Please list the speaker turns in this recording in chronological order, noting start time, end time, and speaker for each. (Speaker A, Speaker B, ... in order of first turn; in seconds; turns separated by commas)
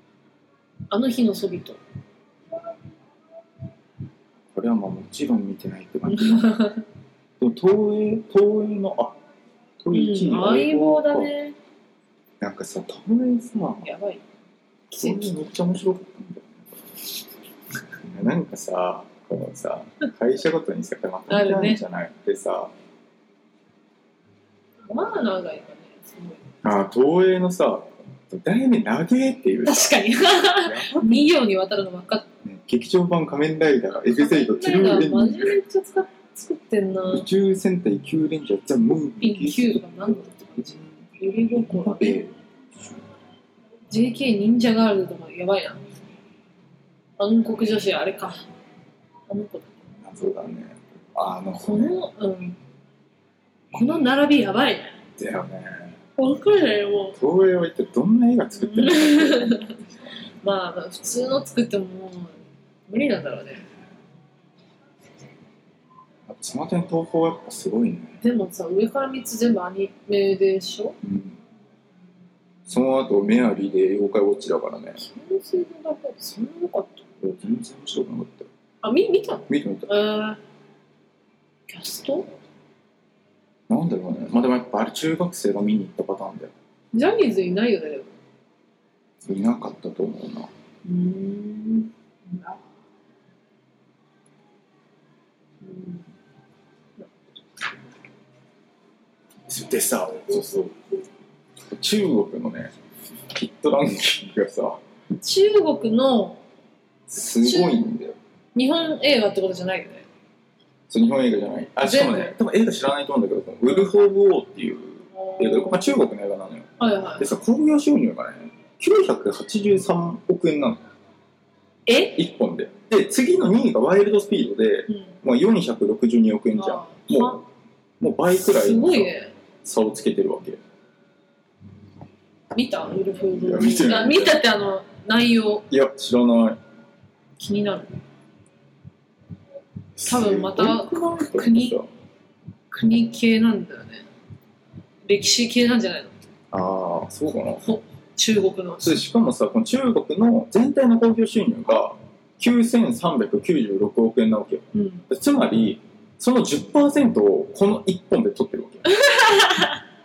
Speaker A: 0.9-1.8, Speaker B: 4.5-6.5, Speaker A: 6.1-6.8, Speaker B: 7.4-9.2, Speaker B: 9.8-11.3, Speaker A: 9.9-11.6, Speaker B: 12.4-13.8, Speaker A: 13.8-14.2, Speaker B: 14.9-16.8, Speaker A: 14.9-15.5, Speaker B: 18.0-22.7, Speaker A: 21.3-21.8, Speaker A: 24.9-26.4, Speaker B: 26.6-31.2, Speaker A: 29.6-32.2, Speaker B: 32.4-35.5, Speaker A: 34.1-37.3, Speaker B: 37.1-40.8, Speaker A: 39.2-42.2, Speaker B: 41.5-42.3, Speaker A: 43.9-45.8, Speaker A: 47.2-48.4, Speaker A: 49.3-49.7, Speaker B: 50.0-51.9, Speaker A: 51.6-52.6, Speaker A: 53.7-54.9, Speaker B: 55.2-56.0, Speaker A: 56.2-57.2, Speaker B: 57.1-59.7, Speaker A: 58.5-59.8, Speaker A: 60.4-63.6, Speaker B: 66.3-68.2, Speaker A: 68.2-71.0, Speaker B: 71.0-71.4, Speaker B: 72.7-75.0, Speaker A: 75.0-77.0, Speaker B: 77.2-78.5, Speaker A: 78.8-80.4, Speaker B: 79.5-79.9, Speaker A: 81.7-82.3, Speaker B: 83.7-86.5, Speaker A: 86.9-88.1, Speaker B: 89.2-90.5, Speaker A: 90.8-92.6, Speaker A: 95.6-96.0, Speaker A: 97.0-97.3, Speaker B: 99.5-100.7, Speaker B: 101.7-102.7, Speaker B: 103.3-104.8, Speaker A: 105.2-106.4, Speaker B: 107.1-108.2, Speaker A: 107.4-107.9, Speaker A: 108.5-110.0, Speaker B: 110.9-120.8, Speaker A: 111.8-112.3, Speaker A: 115.1-115.9, Speaker A: 116.8-117.3, Speaker A: 121.9-122.2, Speaker B: 122.1-127.4, Speaker A: 124.9-125.1, Speaker A: 126.6-127.4, Speaker B: 128.0-129.1, Speaker A: 128.3-129.3, Speaker B: 129.6-130.6, Speaker A: 132.5-135.6, Speaker B: 133.3-134.4, Speaker B: 135.7-136.6, Speaker A: 137.4-137.9, Speaker B: 140.0-141.9, Speaker A: 140.1-141.8, Speaker A: 142.7-144.1, Speaker A: 145.1-146.2, Speaker B: 146.5-147.7, Speaker A: 147.6-149.0, Speaker B: 148.8-158.9, Speaker A: 154.7-155.1, Speaker A: 158.9-159.8